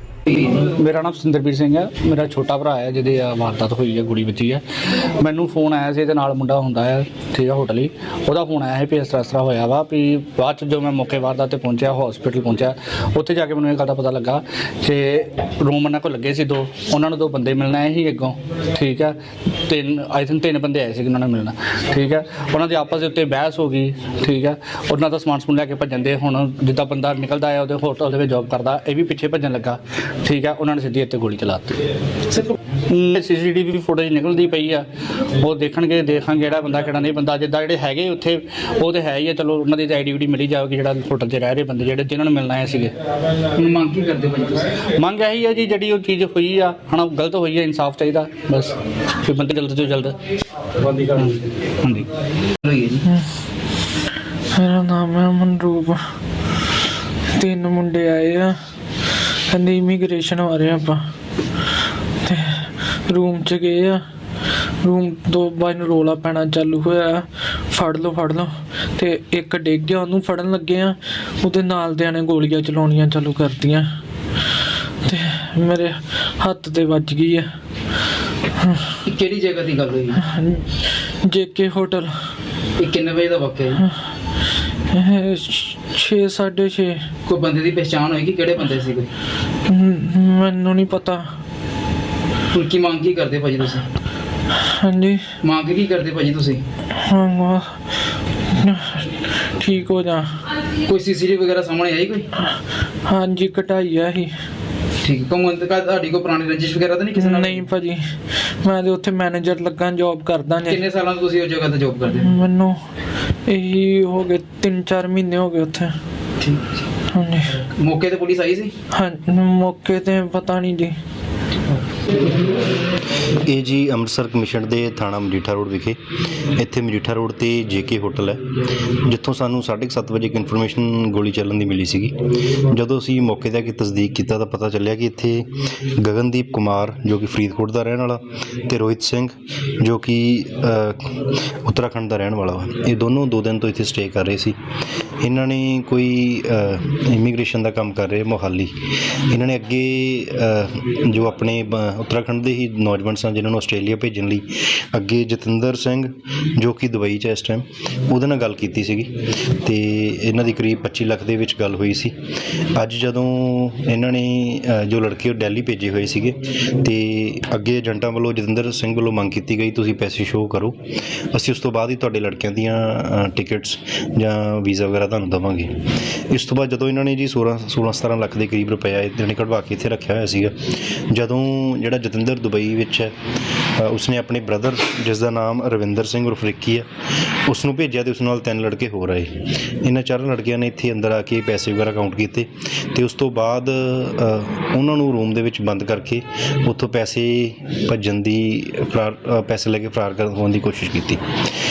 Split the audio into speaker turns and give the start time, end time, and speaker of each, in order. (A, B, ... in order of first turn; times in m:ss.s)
0:00.3-0:19.2 A
0:19.7-0:31.8 A
0:32.3-0:34.9 A
0:35.4-0:42.9 A
0:43.6-0:44.8 B
0:44.9-0:50.2 A
0:50.8-0:52.1 A
0:52.6-0:53.0 B
0:54.5-0:56.0 C
0:57.3-0:58.6 C
0:59.5-1:01.0 C
1:02.2-1:04.0 C
1:04.8-1:13.9 C
1:15.0-1:17.5 C
1:18.6-1:19.0 C
1:19.0-1:20.2 B
1:20.2-1:20.7 C
1:21.2-1:22.1 C
1:22.8-1:23.8 B
1:24.9-1:27.0 C
1:27.3-1:29.1 B
1:29.7-1:31.3 C
1:32.5-1:33.9 B
1:34.6-1:35.2 C
1:35.4-1:36.6 B
1:37.0-1:37.8 C
1:38.5-1:40.3 C
1:40.7-1:42.3 B
1:43.0-1:44.3 C
1:45.0-1:47.6 B
1:47.2-1:48.0 C
1:48.6-1:50.8 C
1:50.7-1:52.4 B
1:52.2-1:52.8 C
1:53.5-1:55.9 C
1:57.1-1:57.6 C
1:57.6-1:58.7 B
1:58.9-2:01.0 C
2:03.3-2:06.0 D
2:06.6-2:24.6 D
2:25.2-2:28.8 D
2:29.3-2:50.8 D
2:51.3-2:55.8 D
2:56.3-3:03.1 D
3:03.8-3:06.9 D
3:07.5-3:21.2 D